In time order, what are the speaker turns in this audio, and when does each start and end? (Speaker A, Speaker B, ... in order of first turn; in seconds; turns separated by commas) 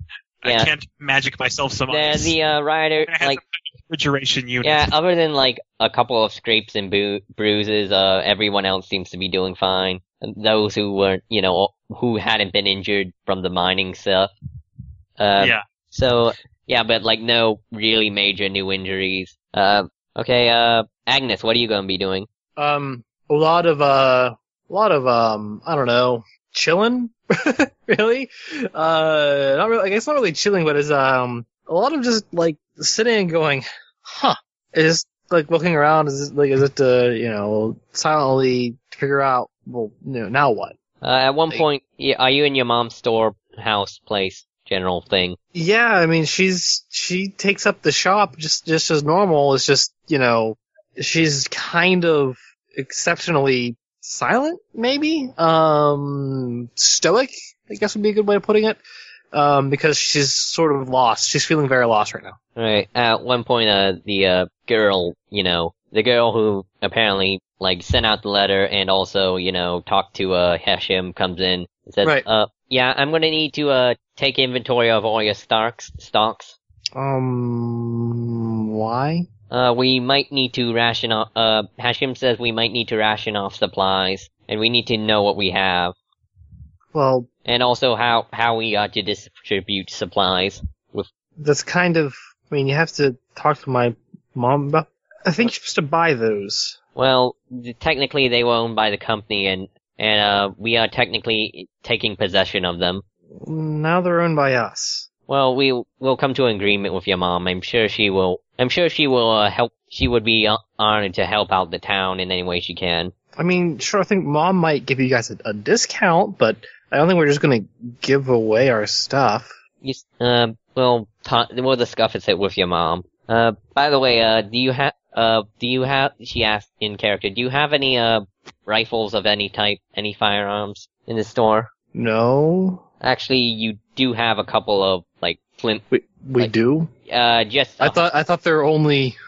Speaker A: 0.4-2.4, Speaker B: 0.4-0.7, Speaker B: 1.9-3.4, Speaker A: 3.0-4.9, Speaker B: 4.6-14.3, Speaker B: 15.2-22.3, Speaker C: 22.6-40.8, Speaker B: 41.0-45.4, Speaker C: 45.5-58.8, Speaker C: 59.3-62.3, Speaker B: 62.5-76.5, Speaker C: 76.9-79.2, Speaker B: 79.5-85.9, Speaker C: 86.9-87.3, Speaker B: 87.4-91.1, Speaker C: 91.4-96.8, Speaker B: 97.0-103.0, Speaker C: 103.4-105.1, Speaker B: 105.3-113.1, Speaker C: 113.3-119.5, Speaker B: 119.8-131.7, Speaker C: 131.9-132.8, Speaker B: 133.0-135.8, Speaker C: 135.9-136.9, Speaker B: 137.1-138.0, Speaker C: 137.8-139.2